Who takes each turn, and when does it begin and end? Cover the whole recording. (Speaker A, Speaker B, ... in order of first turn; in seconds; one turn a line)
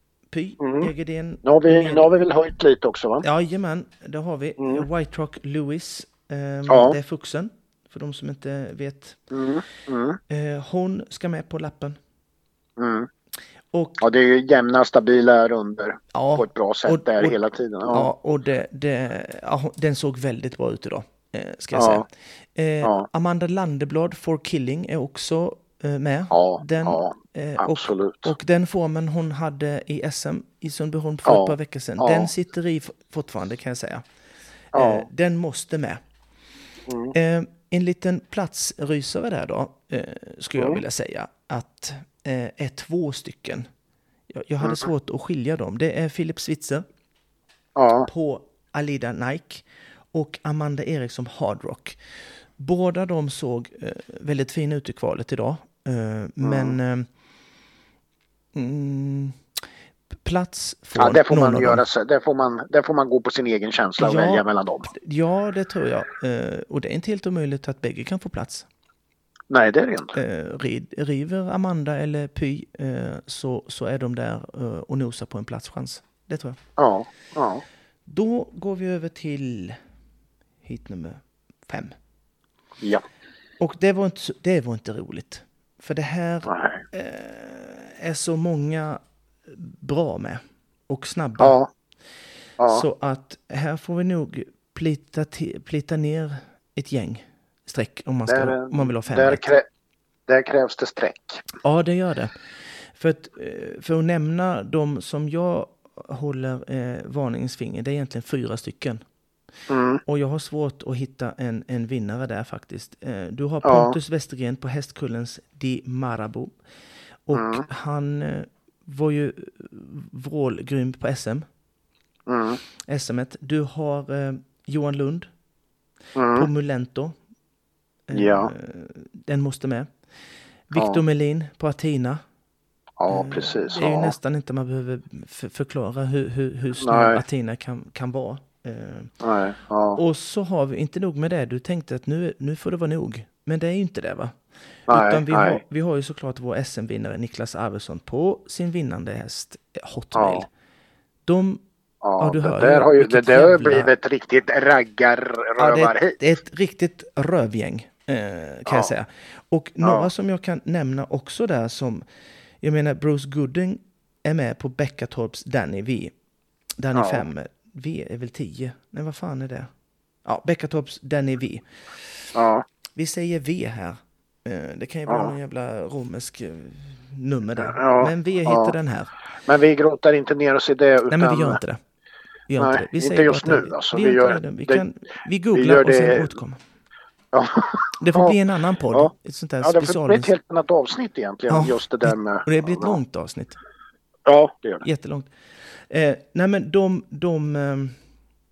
Speaker A: 0.3-2.1
Speaker B: 0.6-0.9
Speaker B: 1.4-3.2
Speaker A: 3.2-9.2
Speaker B: 4.6-4.8
Speaker B: 6.7-7.0
Speaker B: 9.3-10.2
Speaker A: 10.3-12.0
Speaker B: 12.8-13.1
Speaker A: 13.7-14.1
Speaker B: 14.0-18.1
Speaker A: 16.1-34.0
Speaker B: 21.7-22.1
Speaker B: 26.3-28.3
Speaker B: 31.3-32.3
Speaker A: 34.7-36.0
Speaker B: 34.8-35.1
Speaker B: 36.9-37.1
Speaker A: 37.1-43.7
Speaker A: 44.3-46.8
Speaker B: 47.8-48.1
Speaker A: 48.1-52.0
Speaker A: 52.6-57.1
Speaker B: 56.4-56.8
Speaker A: 58.5-59.4
Speaker A: 60.2-61.8
Speaker B: 61.0-64.9
Speaker A: 64.0-68.7
Speaker B: 69.5-70.2
Speaker A: 70.1-76.6
Speaker B: 76.8-77.6
Speaker A: 78.1-79.8
Speaker A: 80.6-82.0
Speaker A: 83.6-91.6
Speaker B: 86.5-86.8
Speaker B: 91.4-91.7
Speaker B: 92.6-92.8
Speaker A: 92.7-99.5
Speaker B: 98.3-99.6
Speaker B: 100.3-101.4
Speaker A: 101.6-102.3
Speaker A: 102.9-109.0
Speaker B: 109.7-110.0
Speaker A: 110.1-116.5
Speaker B: 113.6-114.0
Speaker A: 117.3-121.5
Speaker B: 117.3-117.7
Speaker B: 122.3-122.6
Speaker A: 122.9-125.3
Speaker B: 126.2-126.5
Speaker A: 126.3-127.2
Speaker A: 128.1-129.9
Speaker B: 128.1-128.5
Speaker A: 130.7-132.2
Speaker B: 130.8-131.0
Speaker B: 133.0-134.2
Speaker A: 133.1-139.1
Speaker B: 136.8-137.2
Speaker B: 139.2-140.0
Speaker A: 139.9-144.3
Speaker A: 144.9-150.5
Speaker B: 144.9-145.6
Speaker B: 150.1-150.5
Speaker A: 151.3-151.6
Speaker B: 152.0-156.2
Speaker A: 152.2-153.9
Speaker A: 155.6-162.0
Speaker B: 158.7-158.9
Speaker B: 159.8-160.1
Speaker A: 162.6-166.1
Speaker A: 166.8-169.7
Speaker B: 166.9-167.2
Speaker A: 170.2-171.7
Speaker B: 172.3-172.7
Speaker A: 172.9-179.1
Speaker B: 175.1-175.3
Speaker B: 177.6-178.8
Speaker B: 179.5-181.6
Speaker A: 181.1-181.8
Speaker A: 182.5-186.6
Speaker B: 182.6-184.8
Speaker B: 185.5-186.3
Speaker B: 187.3-188.4
Speaker A: 188.0-190.3
Speaker B: 188.9-193.0
Speaker A: 191.5-193.6
Speaker B: 194.3-194.9
Speaker A: 194.8-198.0